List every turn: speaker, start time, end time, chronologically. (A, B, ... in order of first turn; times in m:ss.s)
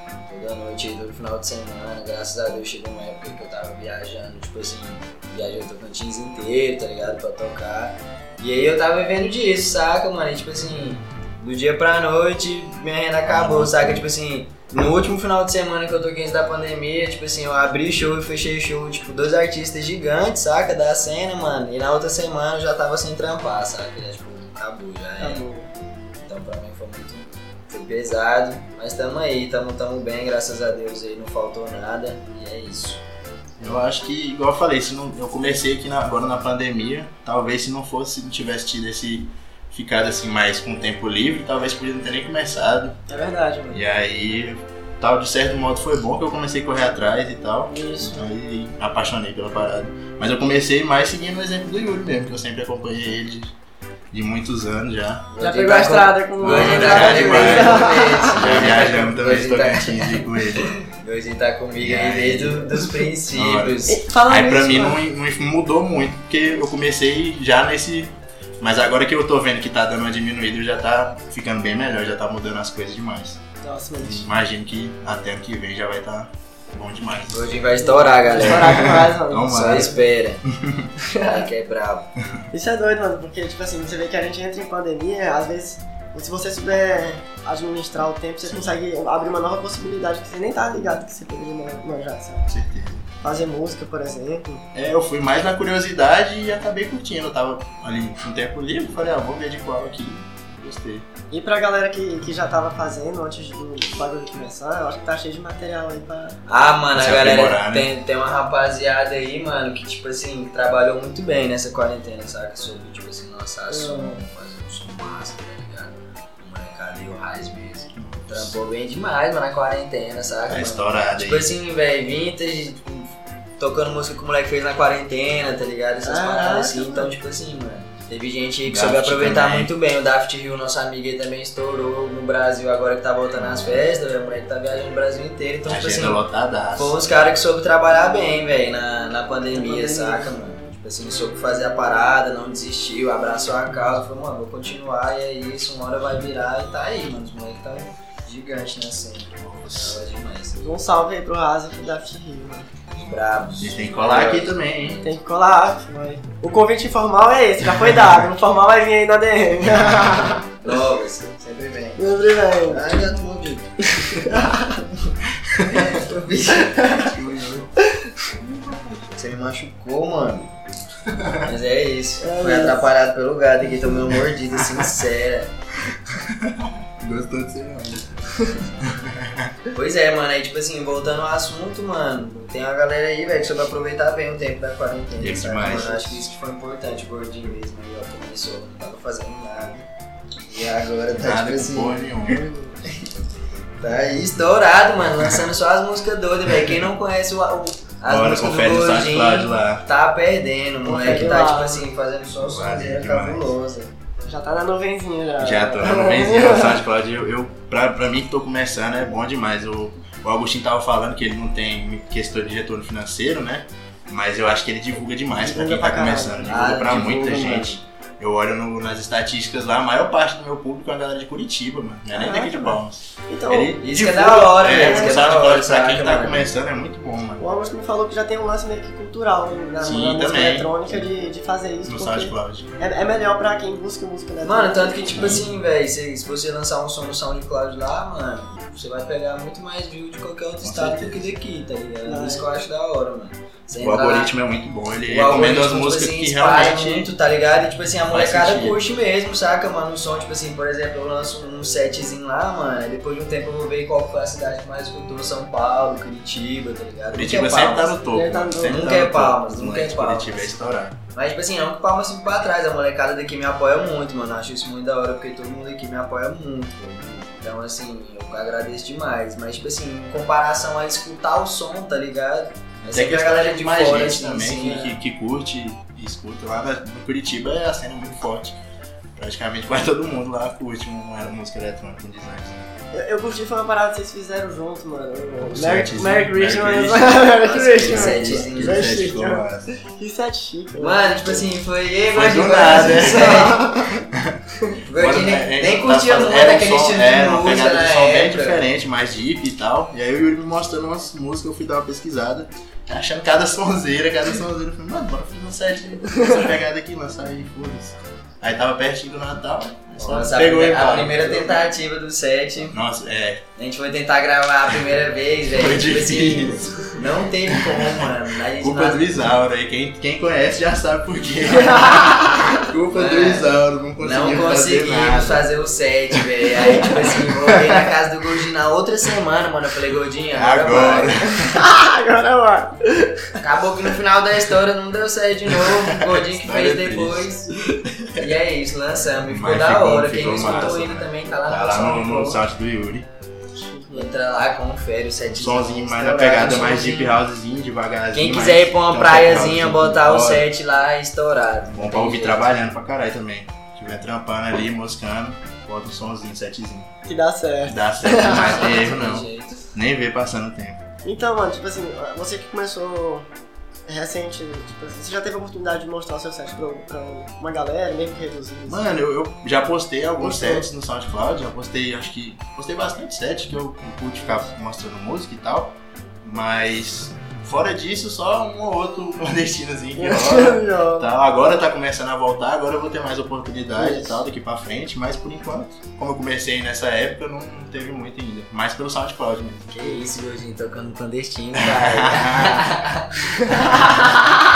0:00.2-0:25.4 A
0:13.2-0:14.1 B
0:25.2-0:25.7 C
0:26.2-0:33.0 A
0:33.6-0:43.0 B
0:43.1-0:43.8 C
0:43.7-0:53.5 B
0:47.7-0:48.3 C
0:54.1-0:55.2 B
0:55.3-1:04.0 A
0:55.4-0:58.6 C
0:56.4-1:00.8 B
1:01.8-1:13.4 B
1:03.9-1:05.0 C
1:13.6-1:14.3 C
1:14.0-1:17.6 B
1:17.3-1:18.9 A
1:17.8-1:19.9 C
1:18.4-1:20.9 B
1:19.4-1:20.4 A
1:21.0-1:21.4 C
1:21.1-1:22.1 A
1:22.5-1:32.5 C
1:28.4-1:28.8 B
1:32.5-1:33.1 B
1:33.2-1:34.7 C
1:34.7-1:41.1 B
1:41.3-1:46.4 C
1:46.5-2:16.2 A
1:46.9-1:47.9 B
1:53.7-1:54.2 C
1:58.0-1:58.5 B
2:00.5-2:01.5 B
2:06.0-2:07.1 C
2:08.7-2:09.7 B
2:13.4-2:13.8 B
2:15.6-2:17.0 B
2:16.8-2:30.7 A
2:19.5-2:20.3 C
2:29.4-2:30.0 B
2:30.6-2:32.7 C
2:32.9-2:35.2 A
2:33.6-2:35.0 B
2:35.0-2:40.5 C
2:39.7-2:40.3 B
2:40.6-2:42.1 A
2:42.0-2:43.0 C
2:42.6-2:43.7 A
2:43.9-2:44.8 C
2:45.6-2:47.0 A
2:46.7-2:47.0 C
2:46.9-2:47.8 B
2:48.4-2:48.8 B
2:49.1-2:50.5 A
2:51.4-2:55.5 A
2:52.2-2:52.8 C
2:55.9-2:58.3 B
2:58.8-2:59.5 B
2:59.7-3:09.9 A
3:05.2-3:06.2 B
3:10.4-3:12.0 A
3:11.1-3:12.4 B
3:12.3-3:12.8 C
3:13.8-3:23.9 A
3:18.0-3:19.8 B
3:20.8-3:21.8 C
3:22.4-3:23.5 B
3:24.2-3:26.8 C
3:25.4-3:47.4 B
3:35.4-3:37.7 C
3:36.5-3:37.8 A
3:42.1-3:45.2 C
3:43.8-3:46.5 A
3:47.4-3:55.4 C
3:49.8-3:51.1 B
3:51.8-3:52.8 B
3:54.4-4:04.3 A
3:55.1-3:55.4 B
4:00.6-4:01.3 B
4:02.0-4:02.5 C
4:03.8-4:07.1 B
4:05.1-4:18.0 A
4:08.1-4:08.8 B
4:17.1-4:21.0 B
4:18.1-4:18.8 C
4:18.6-4:20.5 A
4:21.1-4:34.9 A
4:32.9-4:38.6 B
4:34.6-4:34.9 C
4:39.1-4:42.7 B
4:42.9-4:51.5 C
4:45.4-4:49.7 B
4:47.4-4:48.9 A
4:50.8-4:53.6 A
4:52.1-4:53.6 B
4:52.8-4:54.0 C
4:54.1-4:54.4 B
4:54.8-4:58.6 A
4:55.0-5:11.7 B
5:10.0-5:12.8 A
5:12.7-5:13.4 B
5:13.6-5:19.2 A
5:15.5-5:25.4 B
5:21.7-5:22.5 C
5:22.9-5:31.2 A
5:26.6-5:27.6 B
5:30.3-5:31.4 B
5:31.3-5:33.3 C
5:33.4-5:37.5 A
5:35.5-5:37.3 B
5:38.1-5:42.4 A
5:39.3-5:43.1 B
5:40.2-5:40.7 C
5:43.6-5:44.1 C
5:43.9-5:47.2 A
5:45.3-5:50.5 B
5:48.1-5:52.4 A
5:51.7-5:56.9 B
5:57.0-5:58.8 C
5:57.7-6:00.8 B
5:58.2-5:59.6 A
6:01.0-6:03.3 C
6:03.9-6:08.9 C
6:08.7-6:30.0 B
6:10.2-6:10.7 C
6:14.2-6:14.5 C
6:20.0-6:21.1 C
6:23.8-6:24.2 C
6:29.7-6:34.1 A
6:31.5-6:32.8 B